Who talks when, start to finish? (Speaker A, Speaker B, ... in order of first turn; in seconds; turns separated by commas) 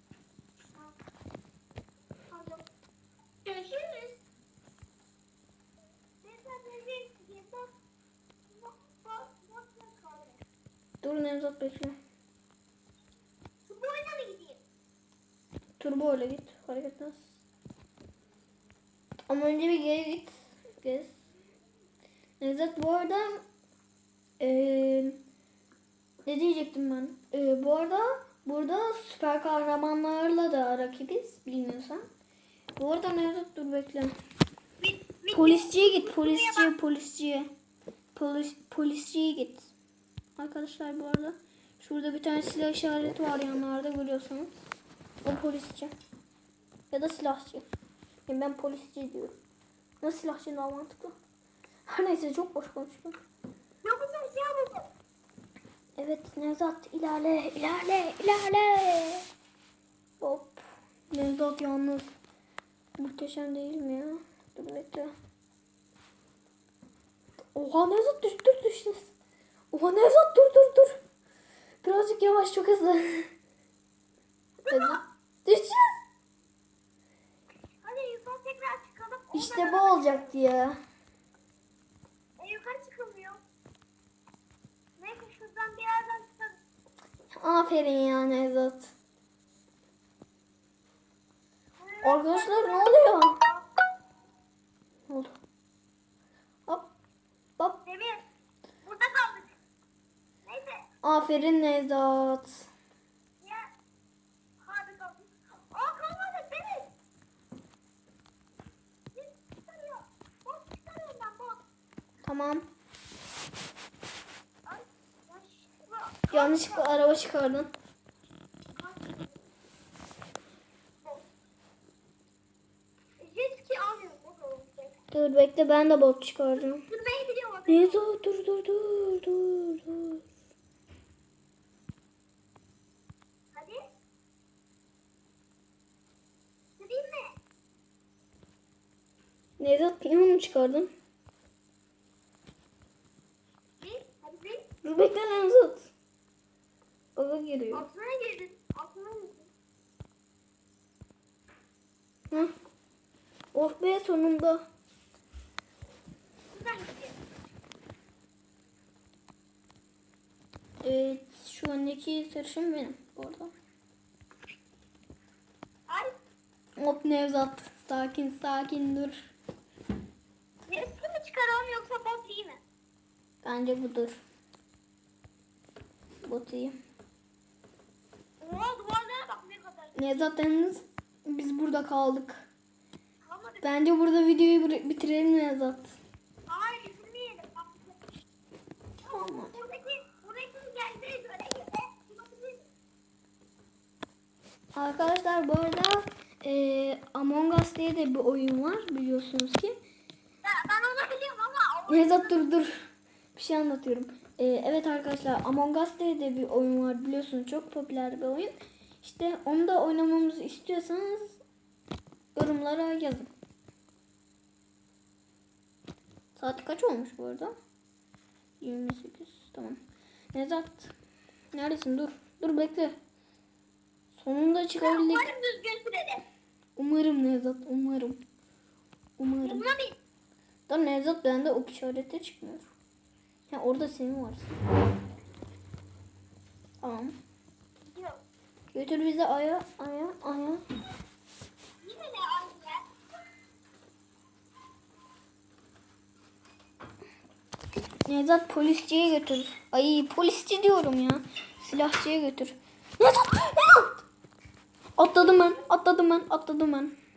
Speaker A: 2.3-2.6, Speaker A: 3.5-4.2, Speaker A: 6.2-7.7, Speaker A: 8.5-10.4, Speaker B: 11.0-12.0, Speaker A: 13.7-14.6, Speaker B: 15.8-17.3, Speaker B: 19.3-21.2, Speaker B: 22.4-23.4, Speaker B: 24.4-25.2, Speaker B: 26.2-32.0, Speaker B: 32.8-34.1, Speaker A: 34.8-36.7, Speaker B: 35.3-37.5, Speaker B: 38.1-39.7, Speaker B: 40.4-44.5, Speaker B: 45.2-45.9, Speaker B: 46.9-47.6, Speaker B: 48.3-49.4, Speaker B: 50.0-51.1, Speaker B: 51.9-53.2, Speaker A: 53.8-54.9, Speaker B: 56.0-59.2, Speaker B: 60.2-62.1, Speaker B: 63.0-65.1, Speaker B: 67.5-69.1, Speaker B: 69.7-71.0, Speaker B: 71.8-73.3, Speaker A: 74.6-75.0, Speaker B: 74.7-75.8, Speaker A: 77.8-80.3, Speaker B: 79.3-80.8, Speaker A: 82.4-83.4, Speaker A: 85.0-86.6, Speaker B: 87.3-88.9, Speaker A: 91.8-93.6, Speaker B: 92.0-93.4, Speaker B: 95.1-95.3, Speaker A: 97.8-98.2, Speaker A: 98.8-99.5, Speaker A: 100.5-100.8, Speaker B: 101.0-102.7, Speaker A: 103.4-103.7, Speaker A: 104.6-106.9, Speaker A: 109.1-111.6, Speaker B: 112.2-112.7, Speaker A: 114.7-116.9, Speaker B: 116.3-117.7, Speaker A: 118.8-119.4, Speaker A: 121.0-121.3, Speaker A: 123.2-125.0, Speaker B: 125.1-126.8, Speaker A: 126.6-128.0, Speaker B: 127.7-130.2, Speaker A: 133.5-133.8, Speaker A: 136.8-137.3, Speaker B: 139.6-140.9, Speaker A: 143.8-144.7, Speaker B: 144.8-145.9, Speaker B: 147.2-147.8, Speaker A: 147.7-149.5, Speaker B: 153.5-154.6, Speaker A: 156.5-157.2, Speaker B: 160.8-163.5, Speaker B: 166.8-169.3, Speaker A: 170.7-172.6, Speaker B: 173.4-174.2, Speaker B: 176.2-176.8, Speaker A: 178.4-180.2, Speaker B: 179.9-182.5, Speaker A: 183.2-183.7, Speaker B: 183.6-185.9, Speaker A: 186.5-188.0, Speaker A: 189.0-192.7, Speaker B: 189.1-189.5, Speaker B: 194.7-199.8, Speaker A: 200.4-202.4, Speaker B: 201.9-202.7, Speaker B: 203.3-211.4, Speaker B: 212.3-213.3, Speaker B: 216.3-217.5, Speaker B: 218.6-219.8, Speaker B: 220.3-220.9, Speaker B: 221.5-222.9, Speaker B: 224.1-225.3, Speaker A: 224.8-226.2, Speaker B: 226.8-228.2, Speaker B: 229.2-229.6, Speaker A: 229.4-230.0, Speaker B: 230.7-232.7, Speaker B: 233.5-234.5, Speaker B: 236.8-237.2, Speaker A: 237.9-238.2, Speaker B: 238.7-240.6, Speaker A: 241.8-242.9, Speaker B: 248.1-254.0, Speaker B: 255.0-256.9